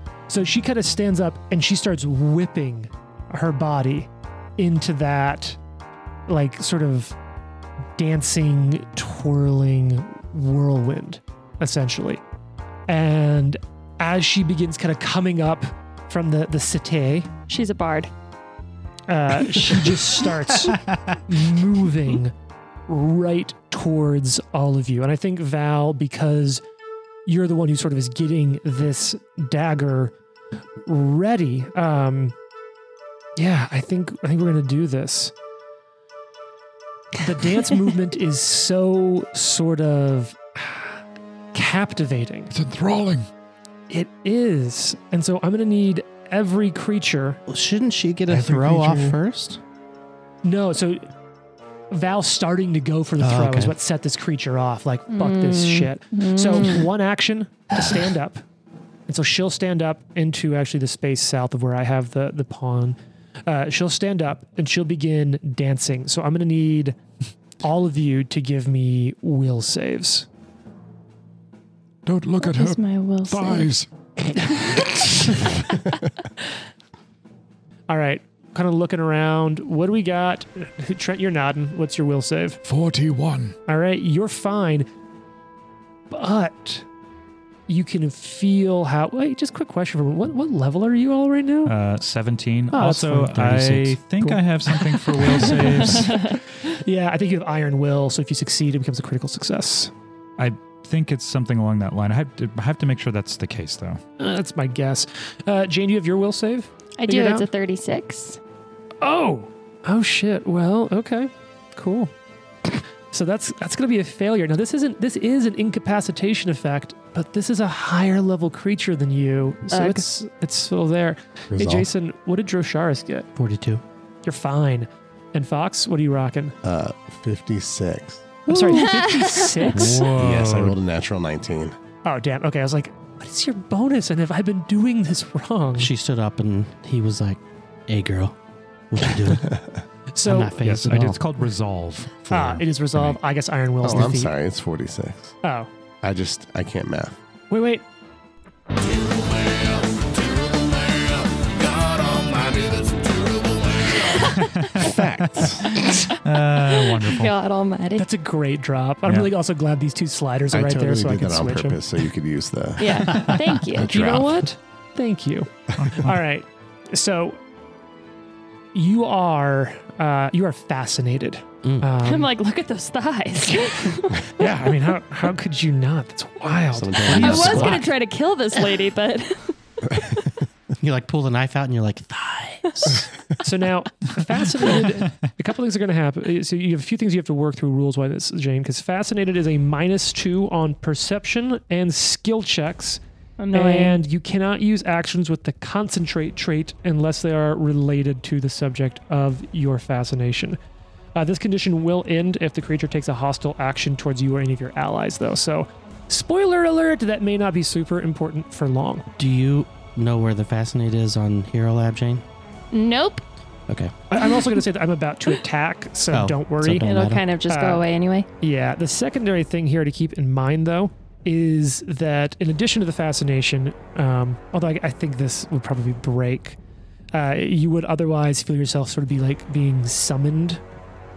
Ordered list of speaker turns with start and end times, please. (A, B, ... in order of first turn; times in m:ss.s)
0:00.3-0:05.6 A
0:06.3-0:07.2 A
0:08.0-0:12.2 A
0:12.9-0:17.3 A
0:17.5-0:18.1 B
0:19.1-0:22.3 A
0:22.9-0:26.6 A
0:27.2-0:30.1 A
0:30.8-0:32.3 A
0:33.4-0:35.3 A
0:37.2-0:41.0 A
0:41.5-0:42.5 A
0:42.5-0:43.2 C
0:43.9-0:47.4 A
0:47.5-0:49.6 D
0:48.3-0:49.1 C
0:50.4-0:51.0 A
0:51.9-0:58.4 A
0:53.2-0:53.8 D
0:55.1-0:56.9 B
0:59.1-1:07.0 A
1:07.6-1:10.3 A
1:12.0-1:15.6 C
1:12.4-1:13.7 B
1:17.9-1:22.6 A
1:22.6-1:23.6 C
1:23.7-1:24.9 A
1:26.1-1:26.8 A
1:27.7-1:31.7 A
1:31.6-1:36.2 E
1:32.7-1:39.9 A
1:35.9-1:36.4 B
1:40.4-1:44.0 E
1:44.2-1:47.5 A
1:47.0-1:48.4 B
1:49.0-1:52.1 A
1:53.1-2:03.3 A
1:59.7-2:00.0 B
2:01.5-2:01.9 F
2:03.4-2:03.8 D
2:04.2-2:06.5 A
2:06.6-2:08.4 F
2:08.5-2:10.1 A
2:08.5-2:09.9 B
2:09.7-2:10.7 C
2:10.1-2:11.8 F
2:12.0-2:15.9 A
2:15.8-2:18.4 D
2:18.9-2:19.6 D
2:19.4-2:19.8 F
2:20.1-2:20.5 A
2:20.2-2:21.2 D
2:20.6-2:23.2 E
2:22.3-2:24.3 A
2:23.8-2:25.4 F
2:25.4-2:25.7 A
2:26.0-2:27.2 F
2:27.5-2:27.8 A
2:28.8-2:34.4 G
2:34.4-2:34.9 E
2:34.8-2:35.7 F
2:35.6-2:38.1 B
2:36.2-2:37.3 E
2:38.0-2:41.8 A
2:39.0-2:39.3 E
2:40.5-2:44.2 F
2:42.8-2:43.9 B
2:43.7-2:47.4 A
2:45.8-2:46.1 E
2:48.7-2:52.3 A
2:52.0-2:54.5 B
2:54.4-2:57.9 A
2:56.7-2:57.8 F
2:57.0-2:57.8 D
2:57.1-3:00.0 B
2:59.9-3:00.3 F
3:00.8-3:03.1 D
3:03.4-3:13.0 A
3:13.4-3:14.0 B
3:13.5-3:20.6 A
3:21.1-3:29.1 A
3:29.2-3:32.2 D
3:32.7-3:33.2 B
3:34.1-3:36.9 A
3:36.1-3:37.3 D
3:36.8-3:38.3 B
3:37.5-3:37.8 A
3:38.4-3:46.6 A
3:47.1-3:50.6 A